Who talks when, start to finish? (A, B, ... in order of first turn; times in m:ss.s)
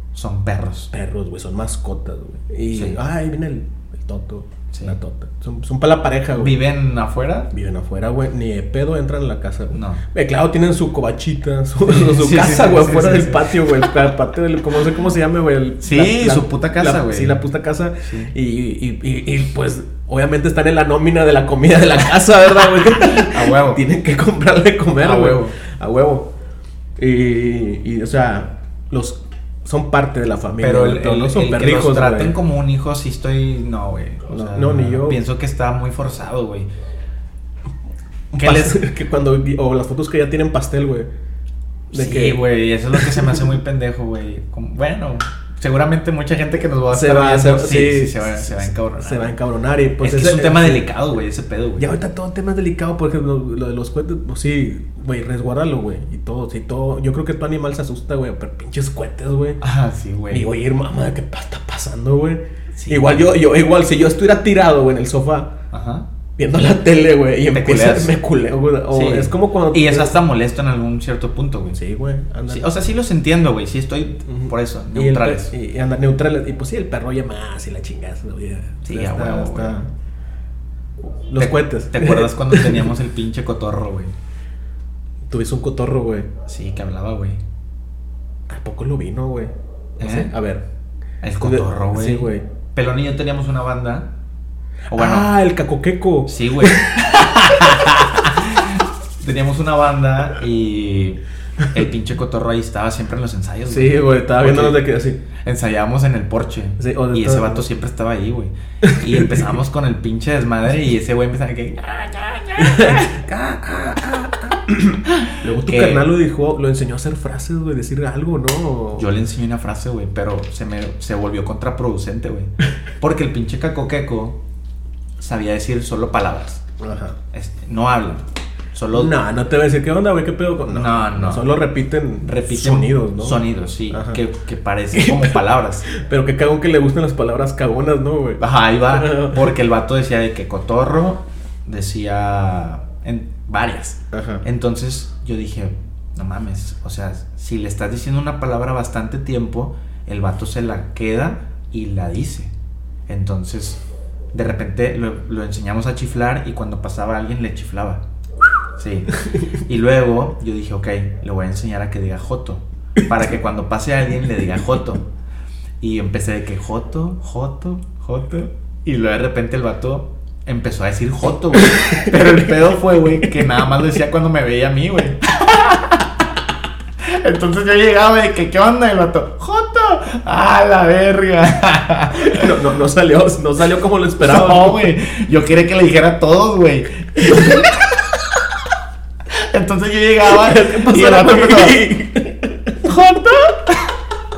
0:00.2-0:00.9 A
0:00.9-0:06.6 B
0:02.7-0:03.0 A
0:06.4-0:07.5 A
0:07.5-0:26.3 B
0:09.7-0:10.0 A
0:11.9-0:13.9 A
0:15.8-0:17.4 A
0:18.0-0:18.3 A
0:22.9-0:23.8 A
0:25.0-0:25.6 A
0:27.0-0:32.4 B
0:30.6-0:36.7 A
0:34.3-0:35.2 B
0:38.3-0:38.8 A
0:38.4-0:41.1 B
0:41.9-0:42.4 B
0:41.9-0:49.3 A
0:42.9-0:43.4 B
0:46.9-0:50.9 B
0:50.0-0:51.9 A
0:51.8-0:59.6 B
0:59.6-1:00.5 A
1:00.3-1:05.5 B
1:02.8-1:03.3 A
1:05.7-1:06.1 A
1:06.4-1:10.2 B
1:07.5-1:08.2 A
1:08.9-1:11.8 A
1:11.7-1:12.7 B
1:12.5-1:15.5 A
1:14.3-1:19.9 B
1:18.8-1:19.8 A
1:21.0-1:22.9 B
1:21.4-1:24.1 A
1:25.3-1:26.3 B
1:26.5-1:27.4 A
1:28.5-1:30.6 B
1:30.0-1:30.3 A
1:31.2-1:34.1 A
1:31.4-1:32.4 B
1:34.9-1:35.3 A
1:34.9-1:37.9 B
1:36.3-1:44.8 A
1:43.7-1:45.2 B
1:45.4-1:53.2 A
1:46.8-1:47.7 B
1:48.8-1:49.5 B
1:52.6-1:59.1 B
1:55.1-1:56.1 A
1:59.0-2:04.4 A
2:05.2-2:06.6 A
2:06.8-2:07.2 B
2:07.3-2:08.2 A
2:08.7-2:09.1 A
2:08.9-2:14.2 B
2:10.7-2:11.5 A
2:12.2-2:15.9 A
2:14.9-2:19.6 B
2:18.4-2:32.5 A
2:24.1-2:24.4 B
2:33.1-2:33.8 A
2:34.3-2:38.0 A
2:38.8-2:45.0 A
2:45.8-2:56.2 A
2:51.7-2:52.4 B
2:57.0-3:02.5 A
3:02.2-3:04.8 B
3:04.2-3:08.1 A
3:09.3-3:11.8 A
3:10.3-3:12.8 B
3:12.8-3:13.9 A